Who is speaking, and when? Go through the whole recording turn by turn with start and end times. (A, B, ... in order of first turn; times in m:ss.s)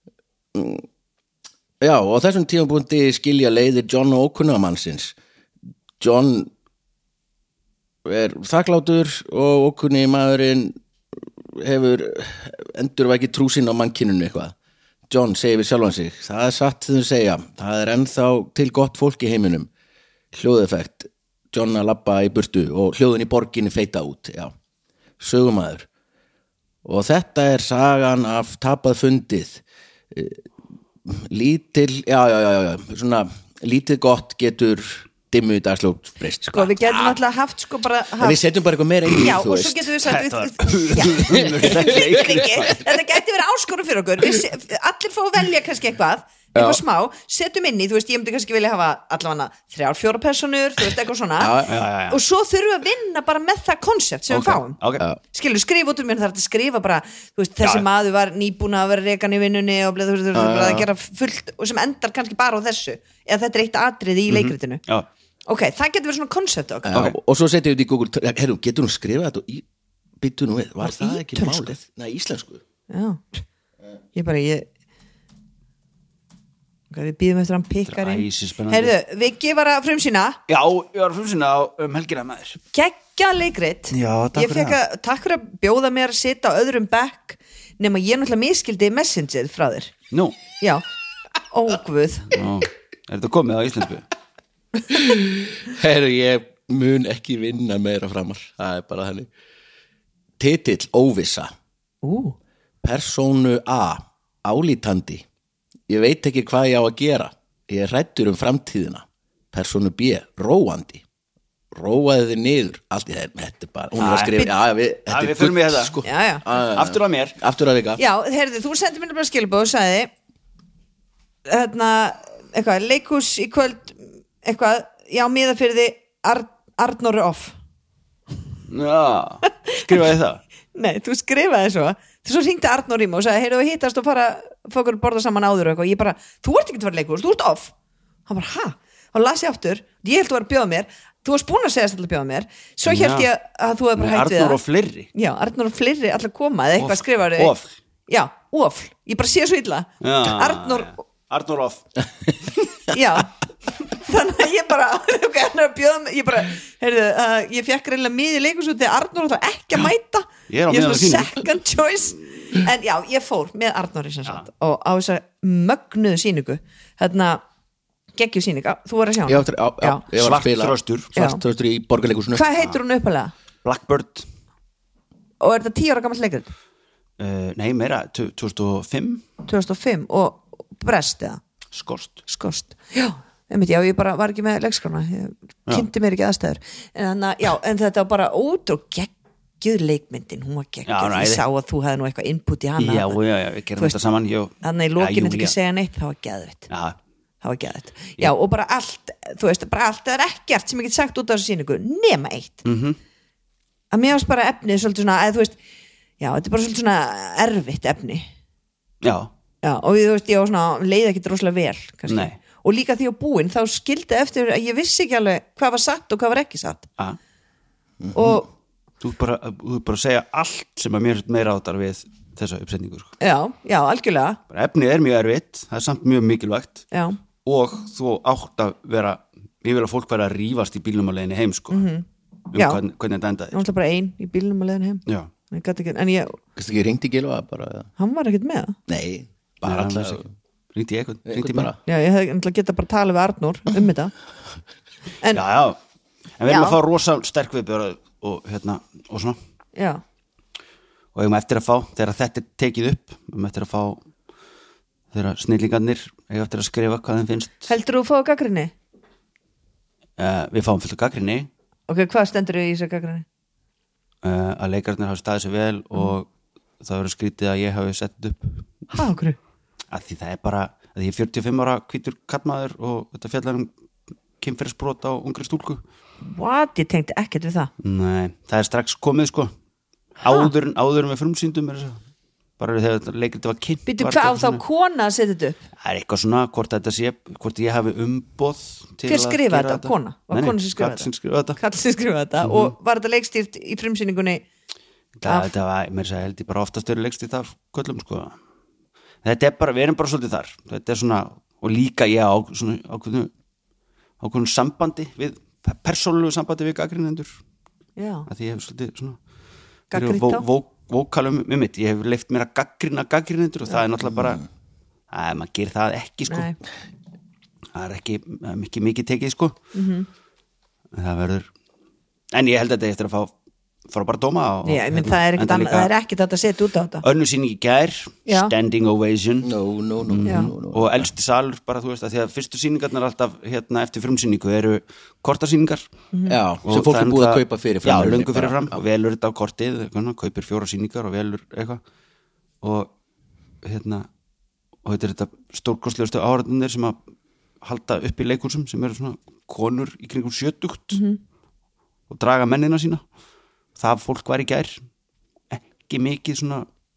0:00.5-0:00.8 A
0:01.8-0:05.2 A
0:06.0-0:06.5 A
0:08.0-0:10.8 A
0:11.5-0:14.5 A
0:15.1-0:19.7 A
0:20.3-0:24.5 A
0:25.2-0:25.9 A
0:26.8-0:30.4 A
0:31.0-0:37.2 A
0:36.5-0:38.4 B
0:38.2-0:39.9 A
0:39.1-0:54.8 B
0:40.1-0:42.8 C
0:41.3-0:42.1 A
0:46.5-0:46.8 A
0:51.4-0:51.8 A
0:51.7-0:52.2 C
0:54.3-0:55.0 C
0:55.3-1:04.8 B
1:00.3-1:00.9 A
1:04.3-1:05.1 C
1:05.5-1:07.0 B
1:06.8-1:09.7 A
1:10.2-1:12.6 A
1:10.8-1:11.8 B
1:12.9-1:13.4 B
1:14.2-1:14.7 B
1:16.9-1:20.4 B
1:17.9-1:18.9 C
1:20.5-1:22.6 C
1:22.7-1:29.9 B
1:23.9-1:24.8 C
1:31.5-1:32.4 B
1:32.3-1:34.1 C
1:34.9-1:39.3 A
1:40.4-1:41.5 A
1:42.0-1:42.4 B
1:42.8-1:45.2 A
1:45.9-1:51.0 A
1:51.7-1:58.0 A
1:54.0-1:54.5 C
1:55.1-1:56.0 C
1:56.0-1:56.4 B
1:56.6-1:57.4 C
1:58.0-2:00.1 B
2:01.5-2:07.6 B
2:08.7-2:10.4 C
2:09.5-2:09.8 B
2:10.7-2:17.7 B
2:18.3-2:24.6 B
2:22.9-2:23.3 C
2:24.0-2:25.1 C
2:25.1-2:27.5 B
2:26.8-2:27.7 C
2:28.1-2:31.0 B
2:30.0-2:31.8 C
2:32.9-2:33.3 B
2:33.9-2:47.4 B
2:40.5-2:41.4 C
2:48.2-2:50.0 B
2:49.3-2:52.4 A
2:50.2-2:51.1 C
2:52.3-2:53.3 B
2:53.6-2:54.3 C
2:55.4-2:56.5 B
2:57.2-2:59.2 C
2:59.4-3:01.4 B
3:01.7-3:02.2 C
3:02.3-3:13.2 B
3:10.9-3:11.4 C
3:12.8-3:15.5 C
3:14.6-3:16.7 B
3:16.7-3:17.0 C
3:17.4-3:22.6 B
3:22.6-3:23.0 C
3:23.9-3:25.6 B
3:26.2-3:28.3 B
3:29.0-3:29.3 C
3:29.6-3:36.9 B
3:32.1-3:32.4 C
3:38.0-3:38.4 A
3:38.2-3:38.5 B
3:39.0-3:43.1 C
3:43.2-3:44.4 B
3:44.5-3:46.9 C
3:46.9-3:47.2 B
3:47.4-3:51.9 C
3:51.7-3:52.8 B
3:52.5-3:53.6 C
3:53.5-3:56.4 B
3:56.6-3:57.9 A
3:58.0-3:58.8 B
3:58.9-4:00.3 A
3:59.6-4:00.2 C
4:00.8-4:01.7 C
4:01.3-4:01.8 A
4:01.9-4:04.1 B
4:05.3-4:05.8 C
4:06.4-4:09.4 C
4:06.5-4:06.8 B
4:09.8-4:10.0 B
4:11.2-4:14.0 C
4:15.1-4:17.7 C
4:17.7-4:18.7 B
4:20.2-4:21.5 C
4:21.9-4:23.2 B
4:24.2-4:26.3 C
4:26.8-4:28.9 C
4:28.9-4:29.4 B
4:29.9-4:33.7 C
4:34.4-4:35.8 C
4:36.2-4:37.7 B
4:37.8-4:39.5 C
4:40.2-4:42.0 C
4:40.2-4:40.5 B
4:42.6-4:44.6 C
4:43.9-4:45.6 B
4:45.8-4:51.6 C
4:49.1-4:54.4 B
4:52.4-4:52.7 C
4:55.2-4:58.4 C
4:55.2-4:55.5 B
4:59.2-5:03.3 C
5:04.2-5:07.4 C
5:08.0-5:08.3 B
5:08.3-5:09.2 C
5:09.9-5:10.4 B
5:09.9-5:14.4 C
5:15.1-5:16.5 C
5:16.3-5:16.6 B
5:17.7-5:19.6 C
5:19.7-5:20.1 B
5:20.9-5:21.5 C
5:22.3-5:23.3 C
5:23.9-5:25.9 C
5:24.6-5:27.0 B
5:27.0-5:29.5 C
5:28.3-5:28.5 B
5:29.4-5:31.1 A
5:30.1-5:35.8 C
5:30.2-5:30.5 B
5:36.1-5:36.4 B
5:36.3-5:38.8 A
5:36.6-5:41.8 C
5:42.6-5:42.9 C
5:43.6-5:44.1 C
5:44.8-5:47.0 C
5:47.6-5:51.0 C
5:50.9-5:51.2 B
5:52.1-5:53.0 C
5:53.8-5:54.8 C
5:55.5-5:56.7 C